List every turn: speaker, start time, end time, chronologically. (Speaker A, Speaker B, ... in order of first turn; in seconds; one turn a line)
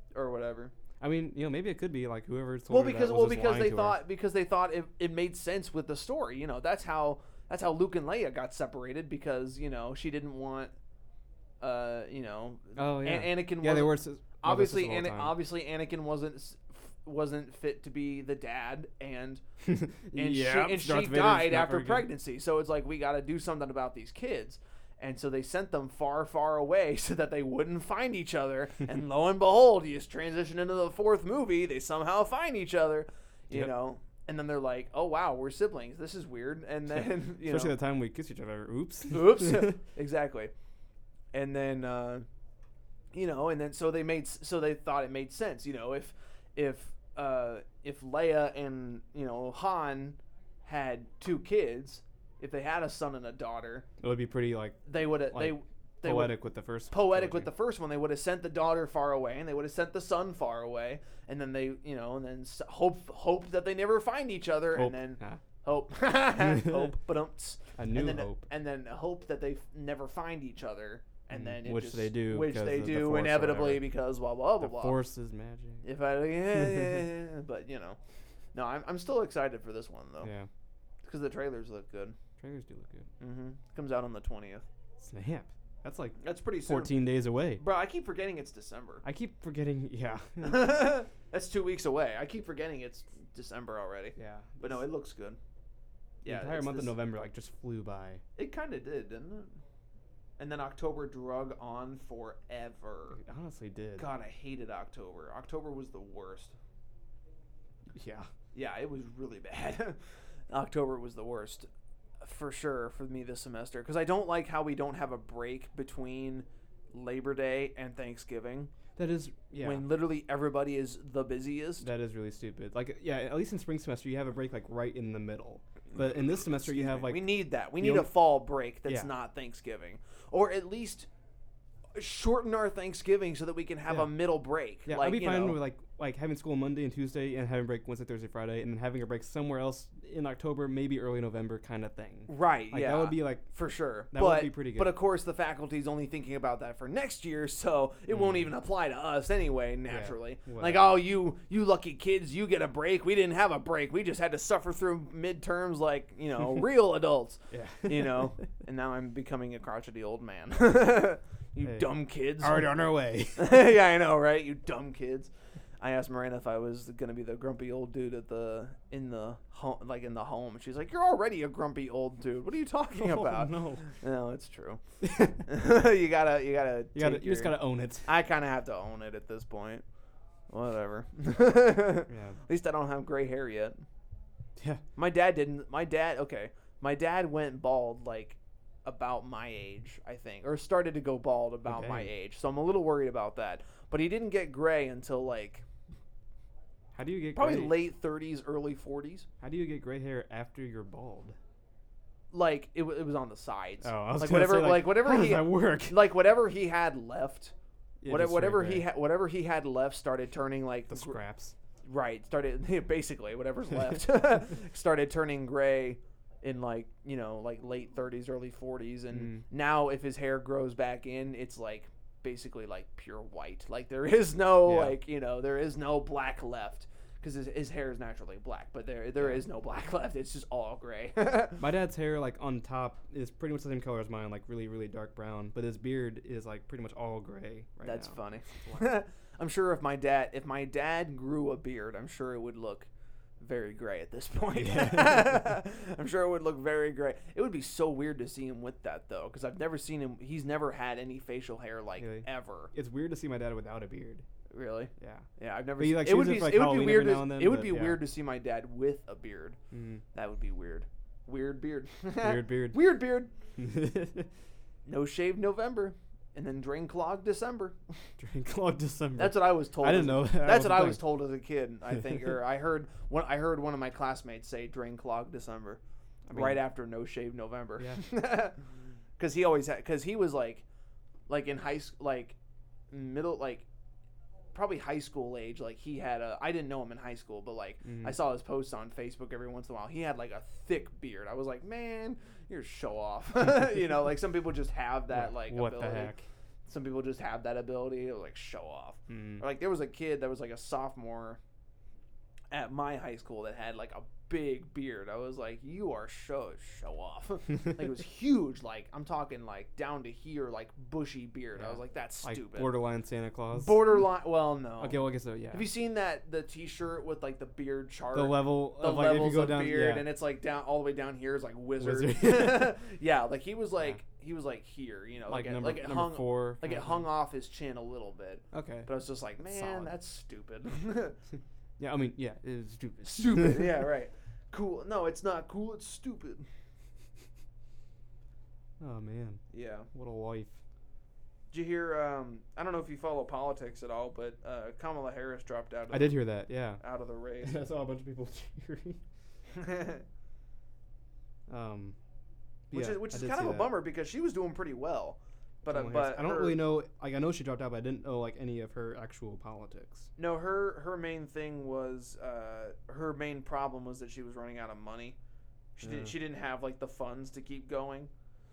Speaker A: 0.1-0.7
Speaker B: 1.0-4.0
Speaker A: 2.7-10.7
Speaker A: 11.6-19.4
Speaker B: 12.8-15.4
Speaker B: 19.6-22.1
Speaker A: 20.1-37.7
Speaker B: 36.9-39.8
Speaker A: 39.1-40.5
Speaker A: 41.3-42.2
Speaker A: 43.1-53.9
Speaker B: 54.0-57.5
Speaker A: 54.9-56.4
Speaker A: 56.9-75.0
Speaker B: 64.7-65.4
Speaker B: 66.4-66.9
Speaker B: 67.8-68.5
Speaker B: 71.3-73.9
Speaker B: 74.6-75.8
Speaker A: 75.8-78.0
Speaker B: 76.5-77.0
Speaker A: 78.5-80.3
Speaker B: 80.2-80.5
Speaker A: 81.0-82.2
Speaker B: 82.4-83.1
Speaker A: 83.2-84.7
Speaker B: 85.0-87.6
Speaker A: 86.2-87.0
Speaker A: 87.6-89.0
Speaker B: 89.0-90.8
Speaker A: 90.4-95.4
Speaker B: 94.2-94.8
Speaker A: 96.2-96.9
Speaker B: 96.2-98.2
Speaker A: 98.4-99.5
Speaker A: 100.4-103.2
Speaker B: 103.1-104.1
Speaker A: 104.0-106.5
Speaker B: 107.9-108.3
Speaker A: 108.5-110.0
Speaker A: 110.5-111.7
Speaker A: 112.2-118.7
Speaker B: 119.0-119.8
Speaker A: 119.6-121.9
Speaker B: 121.8-128.1
Speaker A: 126.5-131.1
Speaker A: 131.9-135.6
Speaker B: 133.9-134.1
Speaker B: 134.8-143.5
Speaker A: 142.3-179.8
Speaker B: 144.1-144.9
Speaker B: 148.1-148.5
Speaker B: 149.9-151.0
Speaker B: 157.5-158.3
Speaker B: 161.6-163.7
Speaker B: 172.9-173.9
Speaker B: 175.0-175.4
Speaker B: 176.9-178.1
Speaker A: 180.5-183.8
Speaker B: 182.1-182.4
Speaker A: 184.9-195.6
Speaker B: 191.7-192.1
Speaker B: 196.9-197.8
Speaker A: 197.3-199.3
Speaker B: 199.4-201.4
Speaker A: 202.3-207.5
Speaker B: 203.8-206.1
Speaker B: 208.0-208.9
Speaker A: 208.1-211.2
Speaker B: 210.9-211.5
Speaker A: 211.8-231.6
Speaker B: 219.1-219.4
Speaker B: 224.6-224.9
Speaker B: 229.2-229.4
Speaker B: 231.6-238.9
Speaker A: 237.8-242.9
Speaker A: 243.4-252.7
Speaker B: 244.5-245.4
Speaker B: 252.0-254.2
Speaker A: 254.5-259.6
Speaker B: 255.0-255.3
Speaker B: 255.8-258.0
Speaker B: 259.7-260.0
Speaker A: 260.1-263.3
Speaker B: 262.2-262.9
Speaker B: 263.6-264.3
Speaker A: 264.9-267.8
Speaker B: 268.2-271.0
Speaker A: 269.2-275.8
Speaker B: 271.9-272.2
Speaker B: 276.3-276.6
Speaker A: 276.3-278.6
Speaker B: 277.8-278.0
Speaker A: 279.2-280.6
Speaker A: 281.3-282.4
Speaker A: 282.9-283.6
Speaker A: 284.5-296.1
Speaker B: 287.8-288.2
Speaker B: 295.1-296.2
Speaker A: 296.7-301.4
Speaker B: 299.1-299.4
Speaker A: 302.5-312.7
Speaker B: 311.6-314.0
Speaker A: 313.5-315.0
Speaker B: 314.8-315.7
Speaker A: 315.5-331.2
Speaker B: 318.1-320.1
Speaker B: 321.8-322.7
Speaker B: 325.3-327.1
Speaker B: 328.5-328.9
Speaker B: 329.4-329.9
Speaker B: 331.8-333.7
Speaker A: 333.1-336.4
Speaker B: 338.8-340.6
Speaker A: 339.5-339.9
Speaker A: 341.5-346.2
Speaker B: 345.9-346.8
Speaker A: 346.8-347.6
Speaker B: 347.4-349.0
Speaker A: 349.5-350.0
Speaker B: 351.5-351.9
Speaker B: 352.7-353.7
Speaker A: 352.7-356.6
Speaker B: 355.7-360.1
Speaker A: 360.2-365.1
Speaker A: 365.8-368.1
Speaker B: 365.8-366.1